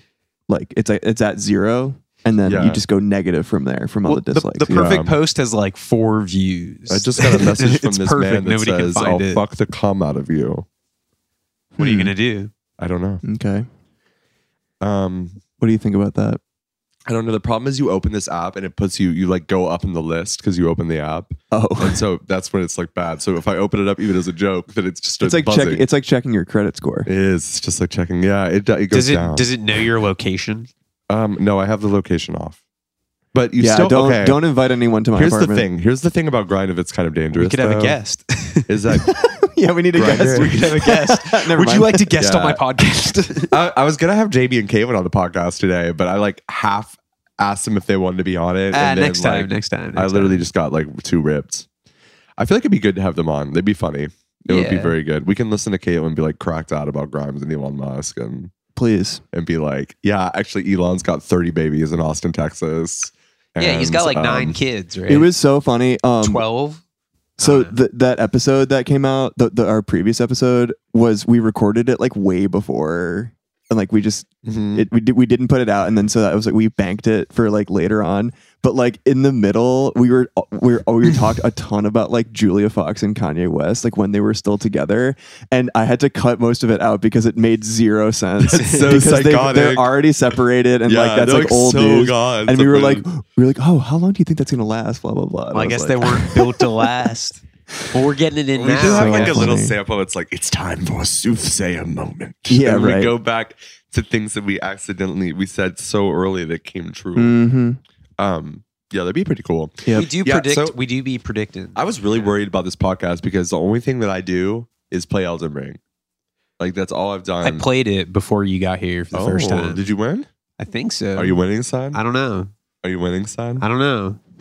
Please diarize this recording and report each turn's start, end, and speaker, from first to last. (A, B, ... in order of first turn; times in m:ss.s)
0:00.5-0:05.0 A
0:02.4-0:02.8 B
0:04.0-0:09.4 C
0:04.7-0:05.2 B
0:06.9-0:10.6 B
0:11.8-0:12.1 A
0:11.8-0:12.5 C
0:12.8-0:13.2 B
0:13.2-0:13.7 A
0:14.8-0:15.4 B
0:15.6-0:16.4 A
0:17.1-0:25.8 B
0:21.5-0:22.0 A
0:25.2-0:27.1 A
0:27.0-0:29.4 B
0:28.9-0:30.7 C
0:31.1-0:32.6 B
0:33.3-0:34.4 B
0:33.6-0:35.7 A
0:35.2-0:38.0 B
0:37.3-0:38.7 C
0:38.7-0:39.1 B
0:39.0-0:42.1 A
0:39.9-0:40.6 B
0:40.1-0:43.6 C
0:42.2-0:42.6 B
0:43.5-0:51.6 B
0:48.7-0:50.4 C
0:52.4-0:58.5 B
0:54.5-0:54.9 C
0:58.8-0:59.2 A
0:59.3-1:04.6 B
1:03.6-1:05.3 C
1:05.1-1:06.4 A
1:06.2-1:06.8 C
1:07.4-1:07.8 C
1:07.4-1:36.6 A
1:14.4-1:14.9 B
1:28.4-1:30.0 B
1:30.8-1:33.0 B
1:35.5-1:39.5 C
1:38.6-1:47.4 B
1:38.8-1:39.8 A
1:42.5-1:43.1 A
1:47.2-1:47.8 A
1:48.2-1:50.8 B
1:49.8-1:50.1 A
1:49.9-1:52.3 C
1:51.7-1:55.8 B
1:56.6-1:57.6 B
1:57.4-1:59.8 C
1:59.1-2:00.3 B
2:00.6-2:01.4 C
2:01.1-2:02.0 B
2:01.9-2:02.5 C
2:02.8-2:03.6 B
2:03.6-2:04.2 C